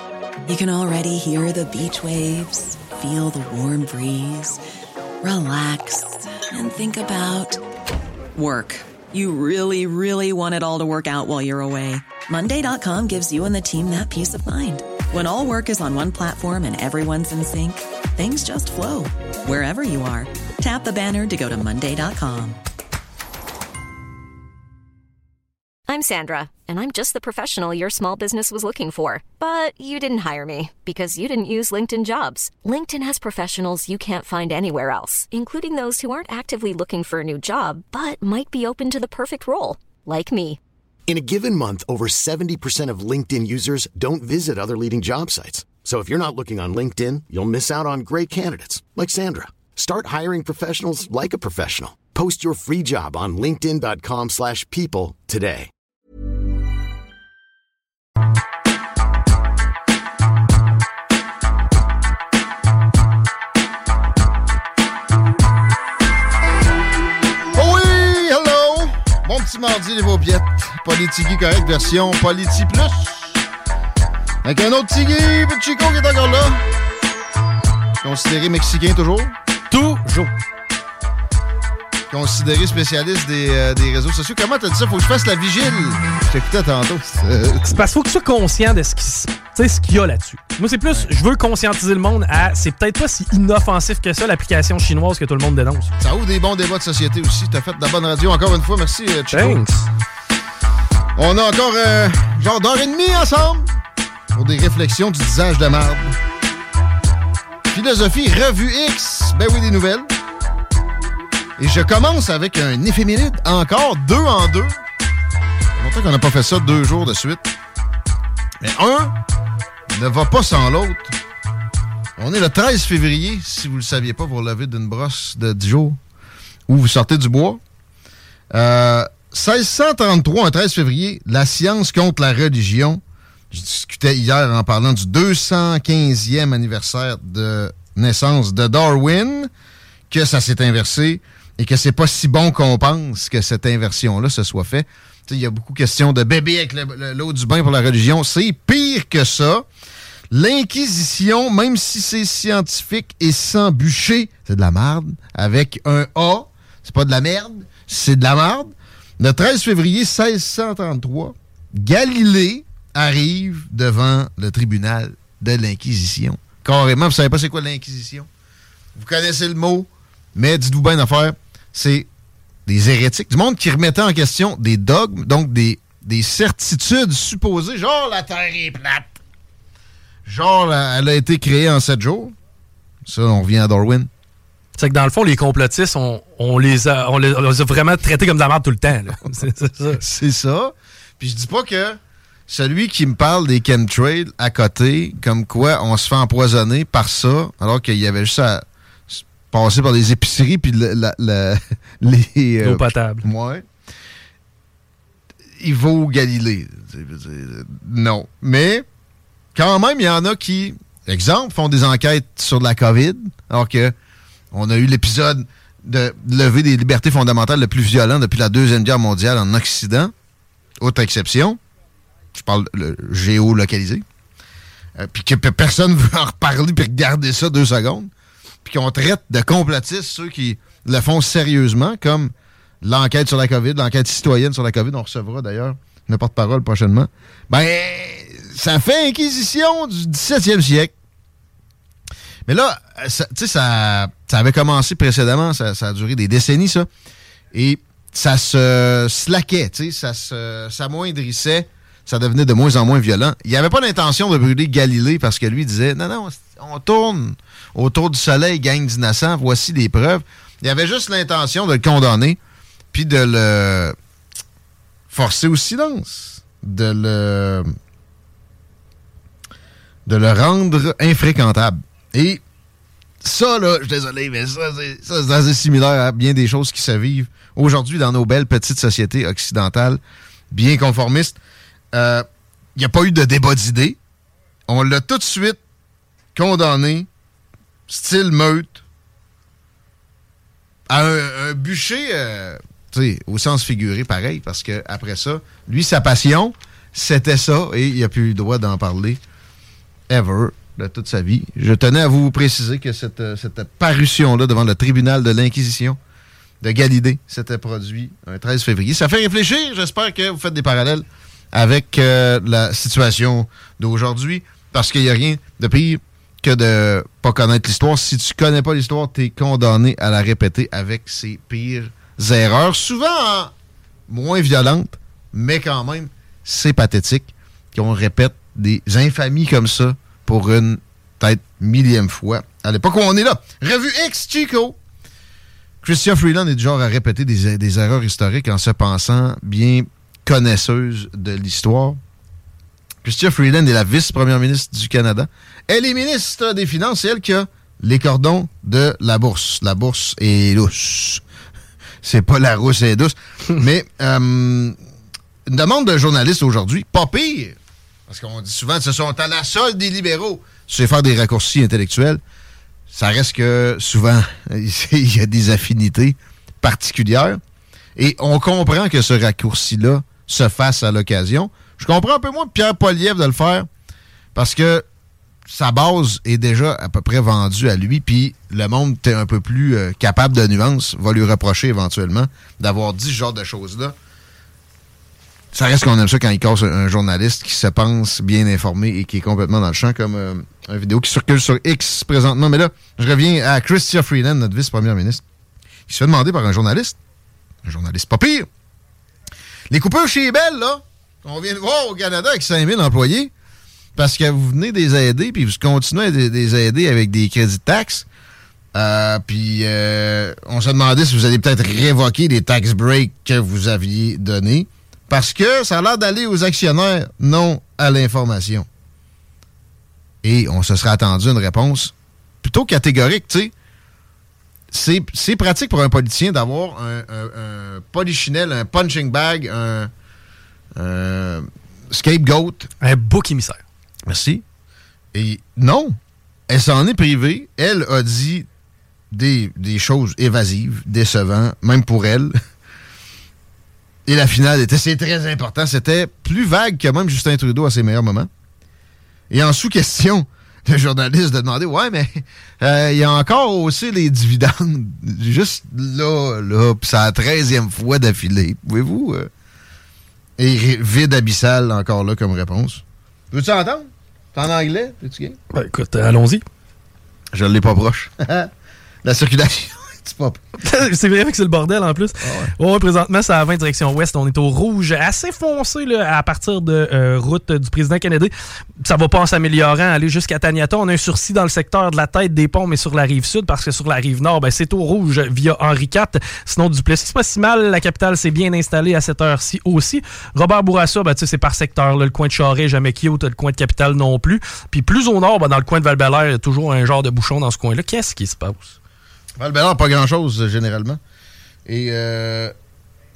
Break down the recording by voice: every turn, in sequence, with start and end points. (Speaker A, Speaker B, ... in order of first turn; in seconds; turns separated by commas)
Speaker A: 0.4-4.6, Speaker A: 5.2-7.6, Speaker A: 8.3-22.6, Speaker B: 25.9-40.6, Speaker C: 41.1-55.7, Speaker D: 67.5-73.4, Speaker D: 74.4-76.6, Speaker D: 78.0-79.3, Speaker E: 79.7-80.3, Speaker D: 82.1-87.7, Speaker E: 87.6-95.9, Speaker D: 96.0-99.6, Speaker E: 99.3-99.9, Speaker D: 101.2-103.8, Speaker D: 104.3-106.2, Speaker D: 107.7-110.1, Speaker D: 111.6-114.8, Speaker D: 115.8-117.5, Speaker D: 118.6-119.2, Speaker D: 119.9-121.2, Speaker D: 122.2-126.0, Speaker D: 126.7-127.6, Speaker D: 128.5-139.5, Speaker D: 140.1-149.7, Speaker D: 150.3-168.3, Speaker D: 168.9-172.1, Speaker D: 172.7-179.1, Speaker D: 180.2-182.3, Speaker D: 183.0-184.1, Speaker E: 184.8-190.0, Speaker D: 189.9-203.7, Speaker E: 202.6-203.2, Speaker D: 205.6-208.8, Speaker D: 209.5-213.9, Speaker D: 214.5-220.1, Speaker D: 220.8-221.6, Speaker D: 222.3-224.0, Speaker D: 224.9-228.1, Speaker D: 228.6-240.9, Speaker D: 242.4-246.9, Speaker D: 247.5-262.4, Speaker D: 262.9-263.9, Speaker D: 265.1-267.7, Speaker D: 270.1-272.4, Speaker D: 273.2-281.4, Speaker D: 281.9-284.0, Speaker D: 284.7-285.6, Speaker D: 286.3-287.1, Speaker D: 287.9-288.8, Speaker D: 290.9-299.2, Speaker D: 300.1-306.0, Speaker D: 306.6-323.5, Speaker D: 324.1-334.8, Speaker D: 335.8-342.0, Speaker D: 343.0-351.2, Speaker D: 352.0-354.8, Speaker D: 355.4-357.6, Speaker D: 358.1-362.2, Speaker D: 362.9-367.4, Speaker D: 367.9-373.7, Speaker D: 374.3-374.8, Speaker D: 375.5-383.9, Speaker D: 385.5-395.2, Speaker D: 395.9-397.0, Speaker D: 397.6-398.5, Speaker D: 399.7-403.3, Speaker D: 403.9-408.1, Speaker D: 408.7-418.7, Speaker D: 420.2-423.5, Speaker D: 424.7-429.9, Speaker D: 430.7-432.7, Speaker E: 432.8-433.6, Speaker D: 434.1-434.4, Speaker D: 435.1-438.5, Speaker D: 439.1-442.3, Speaker D: 444.1-448.3, Speaker D: 449.3-459.3, Speaker D: 460.4-465.4, Speaker E: 465.5-466.4, Speaker D: 467.3-468.5, Speaker D: 469.0-470.4, Speaker E: 470.6-498.7, Speaker D: 472.2-472.5, Speaker D: 499.4-501.0, Speaker D: 501.6-502.5